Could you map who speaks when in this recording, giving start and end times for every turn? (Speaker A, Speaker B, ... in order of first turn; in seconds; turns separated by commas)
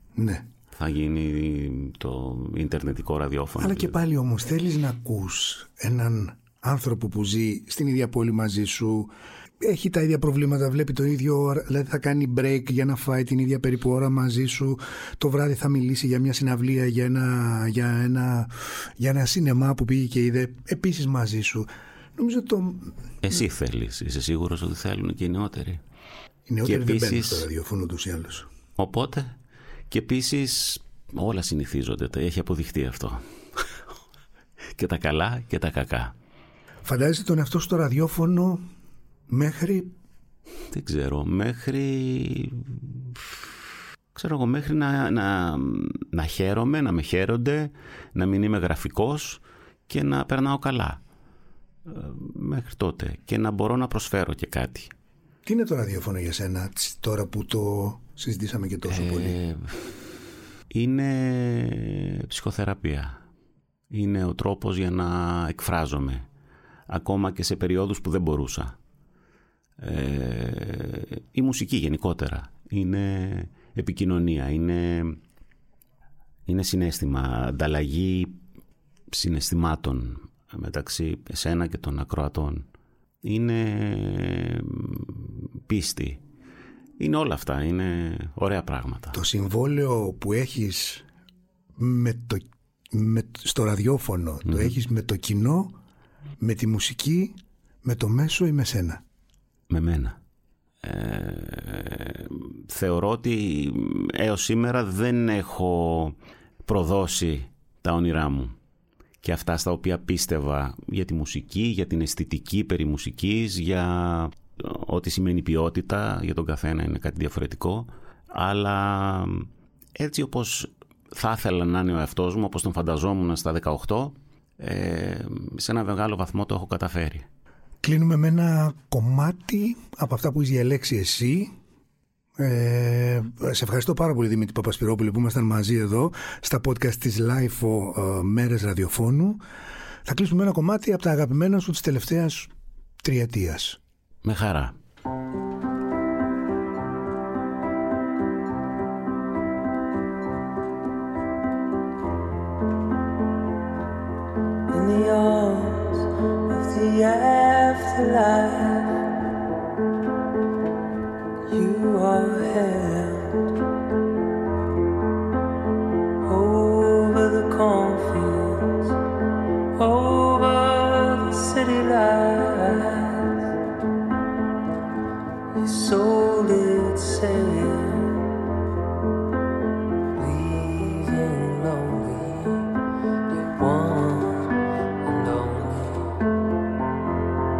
Speaker A: 0.1-0.5, Speaker B: 0.7-4.0, Speaker A: 3.6-22.9, Speaker B: 23.2-25.8, Speaker A: 26.4-28.5, Speaker B: 26.6-27.5, Speaker B: 28.8-29.4, Speaker B: 29.9-33.7, Speaker B: 34.8-36.1, Speaker A: 36.8-38.6, Speaker A: 39.3-39.9, Speaker B: 40.7-43.5, Speaker B: 44.1-51.0, Speaker B: 51.9-54.9, Speaker A: 55.4-59.4, Speaker B: 58.9-60.0, Speaker B: 60.7-63.2, Speaker B: 63.9-66.3, Speaker B: 66.9-68.8, Speaker B: 69.8-75.2, Speaker B: 76.5-78.4, Speaker B: 79.1-82.7, Speaker B: 83.2-86.2, Speaker B: 87.0-89.2, Speaker A: 89.1-91.0, Speaker A: 91.8-95.7, Speaker B: 94.5-94.7, Speaker A: 96.4-99.0, Speaker B: 99.7-100.2, Speaker B: 100.8-108.5, Speaker B: 109.2-127.3, Speaker A: 127.8-131.5, Speaker A: 132.4-139.4, Speaker A: 140.0-142.5, Speaker A: 143.0-143.8, Speaker B: 144.2-144.8, Speaker C: 154.7-158.9, Speaker C: 161.5-163.4, Speaker C: 166.2-168.9, Speaker C: 169.7-173.4, Speaker C: 175.6-178.2, Speaker C: 180.2-182.6, Speaker C: 183.3-186.2